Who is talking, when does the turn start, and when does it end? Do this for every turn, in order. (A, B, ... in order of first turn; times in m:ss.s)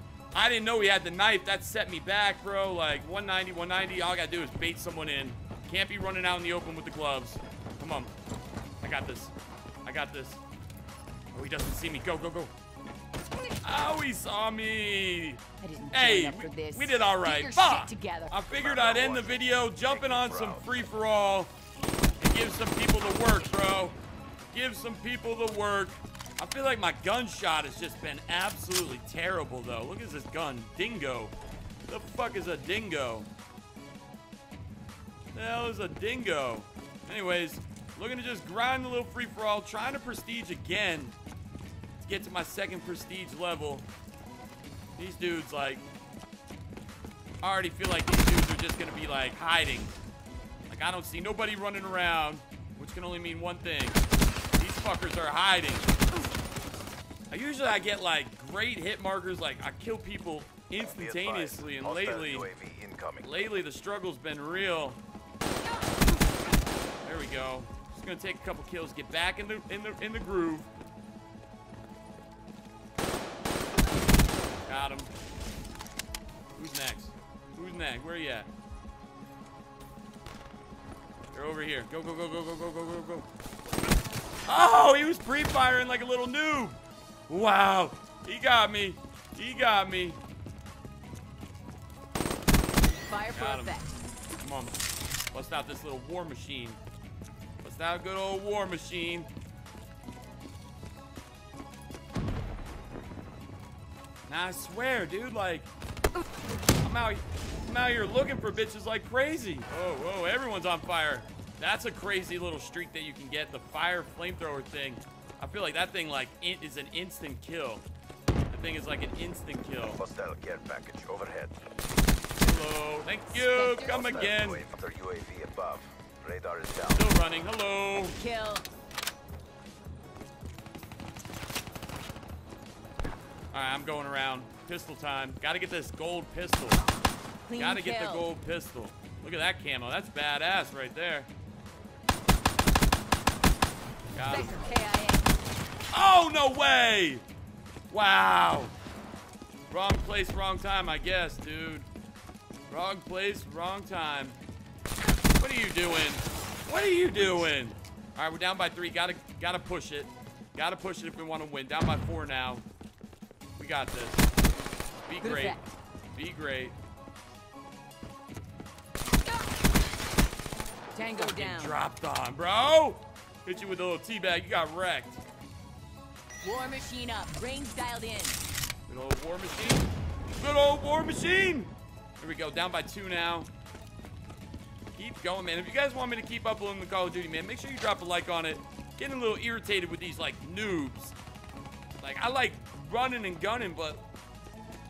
0:00.3-0:08.1 A
0:08.8-0:09.3 A
0:09.8-0:10.4 A
0:11.3-0:12.5 A
0:13.6-0:21.5 A
0:15.6-0:18.4 B
0:18.5-0:20.8 C
0:22.2-0:24.0 A
0:24.5-0:31.3 A
0:31.9-0:33.3 A
0:35.3-0:41.2 A
0:42.0-0:43.9 A
0:45.0-0:45.8 A
0:47.4-0:49.9 A
0:50.7-0:54.0 A
0:54.6-0:55.9 A
0:57.3-1:02.5 A
1:00.8-1:03.5 C
1:03.2-1:05.0 A
1:07.0-1:10.7 A
1:14.6-1:15.1 A
1:16.6-1:18.5 A
1:21.3-1:23.3 A
1:24.5-1:26.8 A
1:27.3-1:30.2 A
1:33.1-1:34.0 B
1:33.3-1:33.8 A
1:34.4-1:34.8 A
1:35.3-1:36.8 A
1:37.6-1:39.3 A
1:44.3-1:45.7 A
1:46.8-1:57.8 A
1:58.5-2:00.0 A
1:59.8-2:01.5 C
2:02.4-2:04.6 A
2:03.3-2:04.2 B
2:03.8-2:07.2 C
2:06.9-2:08.2 A
2:08.2-2:08.7 B
2:13.5-2:16.8 A
2:17.5-2:18.3 B
2:17.6-2:21.3 A
2:24.1-2:24.6 A
2:24.3-2:25.3 B
2:25.9-2:27.2 A
2:27.9-2:28.7 A
2:29.7-2:31.9 A
2:32.7-2:34.4 A
2:35.4-2:42.6 A
2:43.6-2:44.3 A
2:45.1-2:45.6 A
2:45.2-2:45.7 B
2:46.1-2:46.8 A
2:50.9-2:51.8 B
2:51.1-2:55.2 A
2:56.4-2:58.4 B
2:58.9-3:03.5 A
3:05.0-3:11.2 A
3:12.0-3:14.0 A